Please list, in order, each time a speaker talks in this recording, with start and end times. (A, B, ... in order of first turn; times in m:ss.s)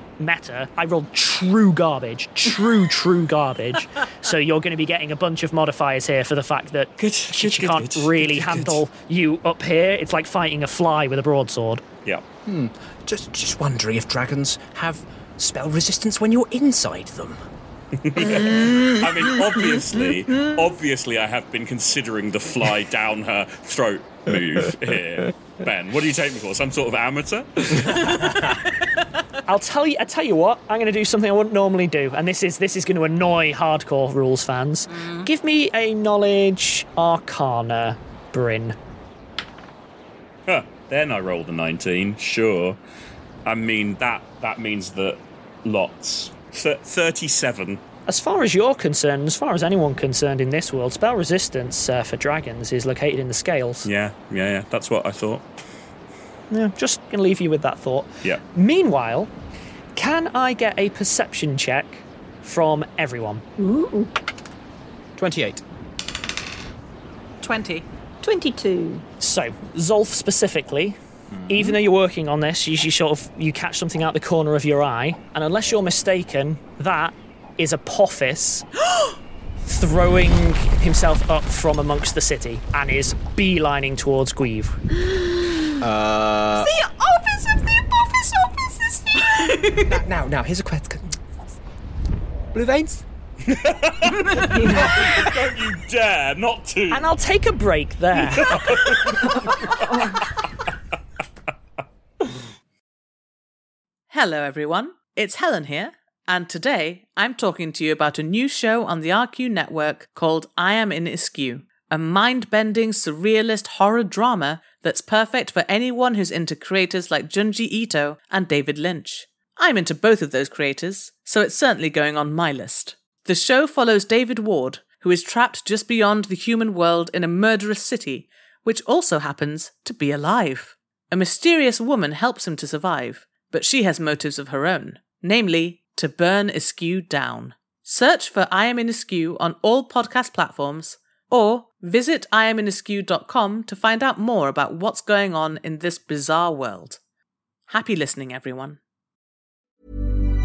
0:00.2-0:11.8 A
0:07.0-0:08.8 B
0:12.5-0:17.4 C
0:18.0-0:28.3 B
0:29.5-0:38.8 A
0:34.9-0:35.3 D
0:40.5-0:42.8 B
0:43.5-0:47.8 B
0:48.1-0:53.9 A
0:53.8-0:55.4 B
0:56.5-0:59.3 A
1:00.0-1:03.4 A
1:03.6-1:04.1 E
1:05.2-1:05.6 C
1:07.4-1:07.9 D
1:08.2-1:09.0 E
1:09.2-1:11.0 A
1:11.4-1:11.8 C
1:11.5-1:18.6 A
1:19.6-1:24.8 A
1:25.1-1:25.7 E
1:25.8-1:26.7 C
1:26.6-1:29.8 E
1:29.4-1:29.8 D
1:29.8-1:31.2 C
1:32.5-1:33.0 C
1:33.5-1:37.1 B
1:34.2-1:34.6 D
1:36.9-1:38.5 A
1:38.3-1:40.1 B
1:44.1-2:27.0 D
2:27.7-2:28.8 D